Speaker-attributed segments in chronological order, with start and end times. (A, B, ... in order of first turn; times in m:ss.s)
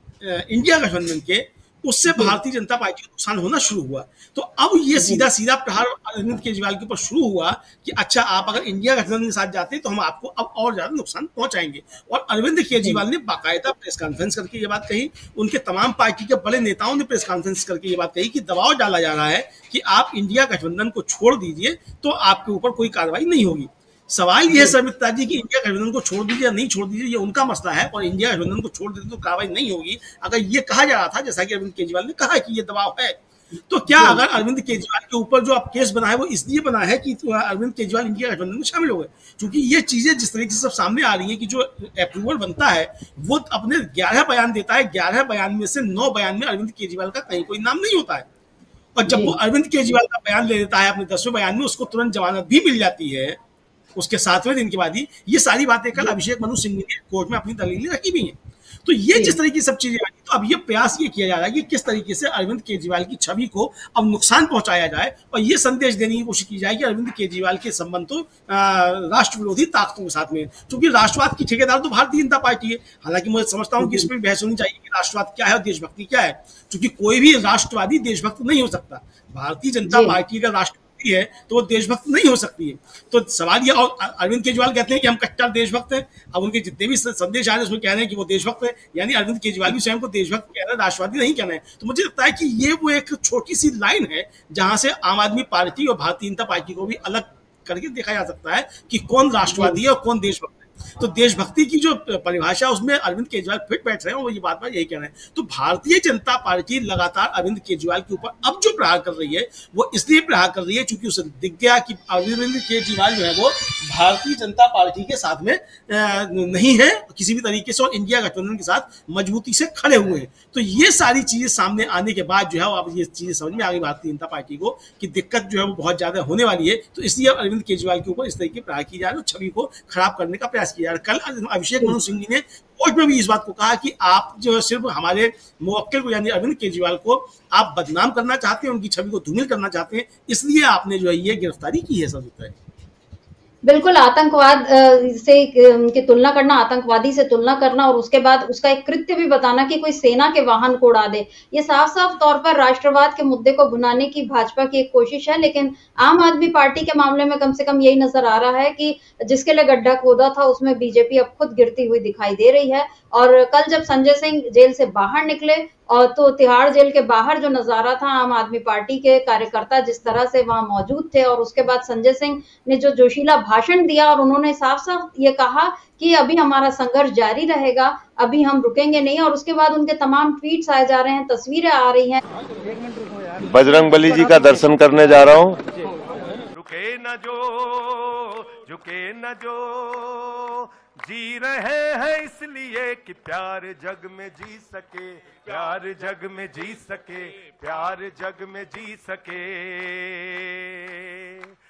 0:00.2-0:48.3 A
0:05.0-0:05.2 B
0:33.9-0:34.3 B
0:49.0-0:53.4 A
0:49.1-0:49.4 B
0:53.9-2:22.5 A
1:13.8-1:14.1 B
1:19.9-1:20.2 B
1:39.5-1:39.8 B
2:23.6-3:02.2 B
3:03.4-3:05.6 C
3:06.5-3:21.4 D